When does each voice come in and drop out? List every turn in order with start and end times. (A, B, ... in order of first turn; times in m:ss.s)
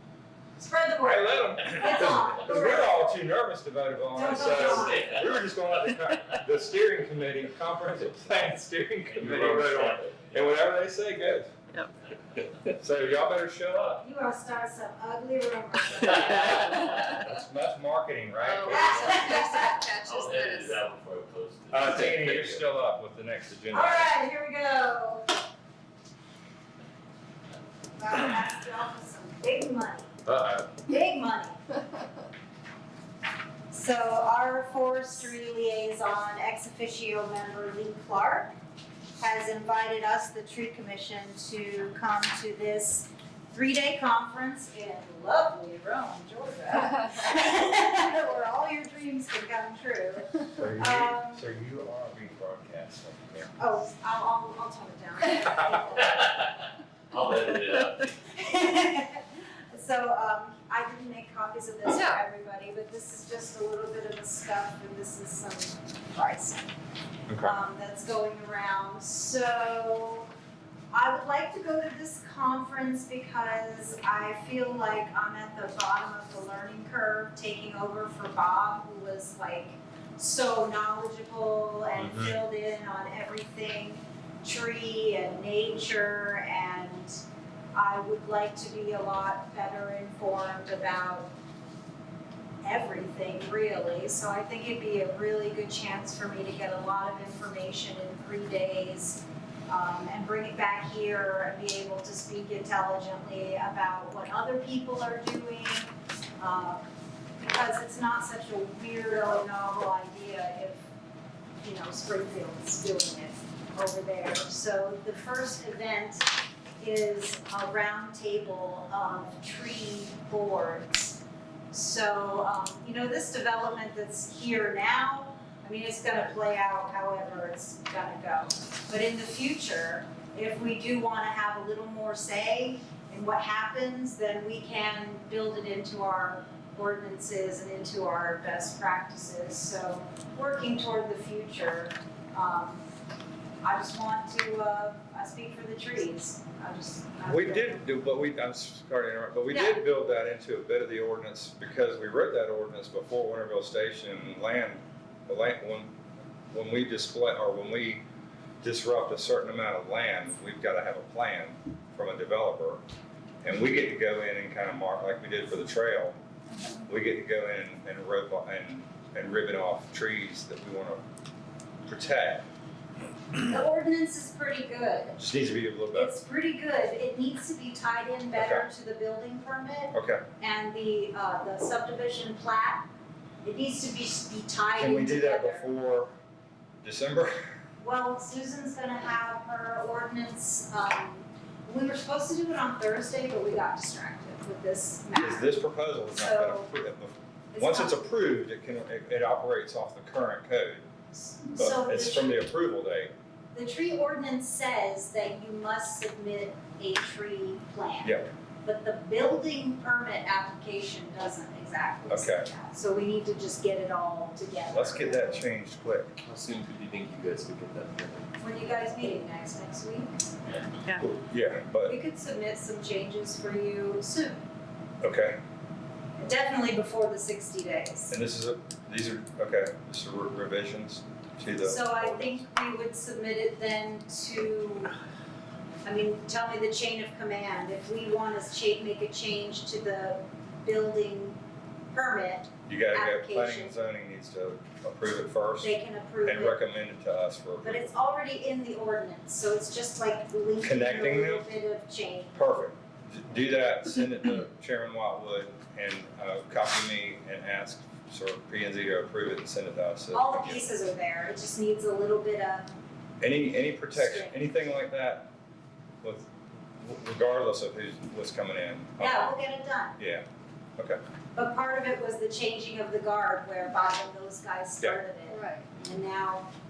0:00.6-0:03.2 A
0:01.0-0:11.5 B
0:04.1-0:05.2 A
0:04.4-0:05.4 C
0:09.1-0:10.4 C
0:12.7-0:14.0 B
0:14.0-0:16.6 A
0:16.3-0:16.9 C
0:16.8-0:19.4 B
0:18.4-0:20.8 D
0:18.7-0:19.8 A
0:20.0-0:22.6 C
0:21.7-0:24.1 B
0:23.7-0:25.3 A
0:28.0-0:30.1 A
0:30.2-0:30.8 B
0:30.9-0:31.6 A
0:33.7-0:38.5 A
0:39.2-0:51.4 A
0:50.6-0:53.5 B
0:53.6-0:56.4 A
0:56.1-0:56.4 C
0:57.1-0:58.1 C
0:58.3-1:06.7 A
1:07.3-1:07.6 B
1:07.4-1:10.3 A
1:10.9-1:27.2 A
1:22.0-1:22.4 B
1:27.7-1:31.3 A
1:32.6-1:46.8 A
1:47.4-1:50.8 A
1:51.6-2:01.2 A
2:01.7-2:22.8 A
2:23.6-2:27.8 A
2:27.2-2:35.9 B
2:29.5-2:29.8 A
2:36.5-2:38.0 B
2:38.6-2:42.8 B
2:43.4-2:46.2 B
2:46.8-2:51.0 B
2:51.8-2:52.4 B
2:53.4-2:55.2 A
2:55.2-2:56.1 B
2:55.9-3:02.9 A
2:58.4-2:58.7 B
2:59.9-3:00.2 B
3:03.4-3:05.7 A
3:04.8-3:06.1 B
3:06.8-3:07.4 B
3:07.8-3:16.7 A
3:15.1-3:20.8 B
3:17.5-3:18.0 A
3:21.1-3:22.4 A
3:21.5-3:23.1 B
3:23.5-3:35.4 A
3:28.0-3:28.3 B
3:32.1-3:32.5 B
3:34.7-3:36.2 B
3:36.2-3:38.2 C
3:38.4-3:40.1 A
3:40.9-3:42.0 B
3:41.8-3:44.4 A
3:45.0-3:45.4 B
3:46.2-3:48.1 A
3:48.1-3:52.4 B
3:51.6-3:54.9 A
3:55.8-4:01.4 A
4:01.9-4:03.8 A
4:02.6-4:07.9 B
4:05.6-4:06.6 A
4:07.6-4:12.7 A
4:10.6-4:11.5 B
4:12.4-4:20.6 B
4:20.1-4:22.7 A
4:23.2-4:25.3 B
4:23.9-4:24.4 A
4:26.0-4:29.3 B
4:29.0-4:30.0 A
4:30.0-4:30.2 B
4:31.4-4:36.5 A
4:35.3-4:35.7 D